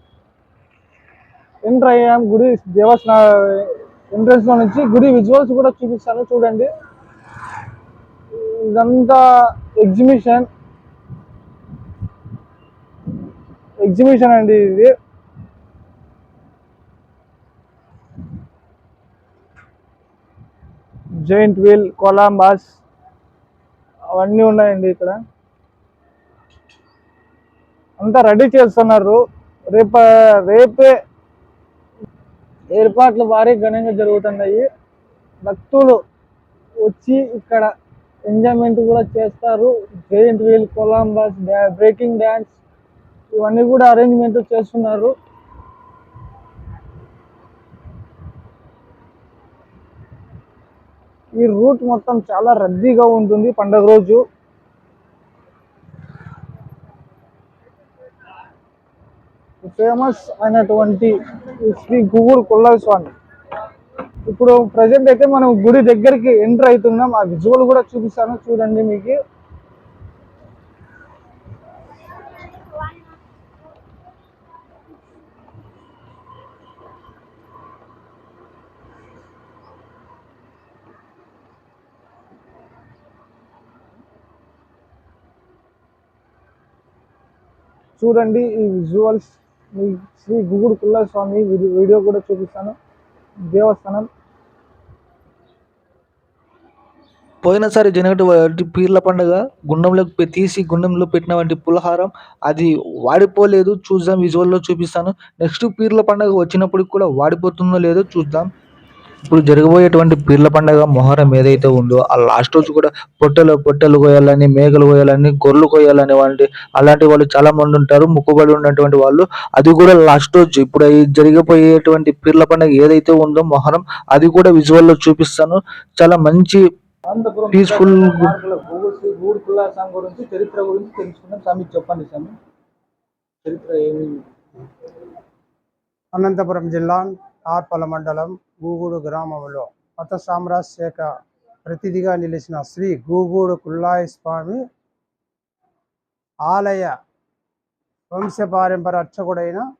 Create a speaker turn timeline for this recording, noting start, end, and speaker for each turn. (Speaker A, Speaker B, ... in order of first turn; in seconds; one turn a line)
Speaker A: 1.6-6.7
Speaker A: 8.3-9.2
Speaker A: 9.8-10.5
Speaker A: 13.8-14.9
Speaker A: 21.2-22.8
Speaker A: 24.1-25.2
Speaker A: 28.0-29.2
Speaker A: 29.7-30.9
Speaker A: 32.7-34.7
Speaker A: 35.5-36.0
Speaker A: 36.8-37.7
Speaker A: 38.3-42.6
Speaker A: 43.3-45.1
Speaker A: 51.4-54.2
Speaker A: 59.6-63.1
Speaker A: 64.3-69.2
Speaker A: 88.0-92.8
Speaker A: 93.5-94.1
Speaker B: 97.4-108.5
Speaker B: 109.3-126.6
Speaker A: 127.1-132.4
Speaker B: 127.5-128.3
Speaker A: 133.4-134.3
Speaker C: 136.1-141.1
Speaker C: 141.7-144.6
Speaker C: 146.5-146.9
Speaker C: 148.1-149.7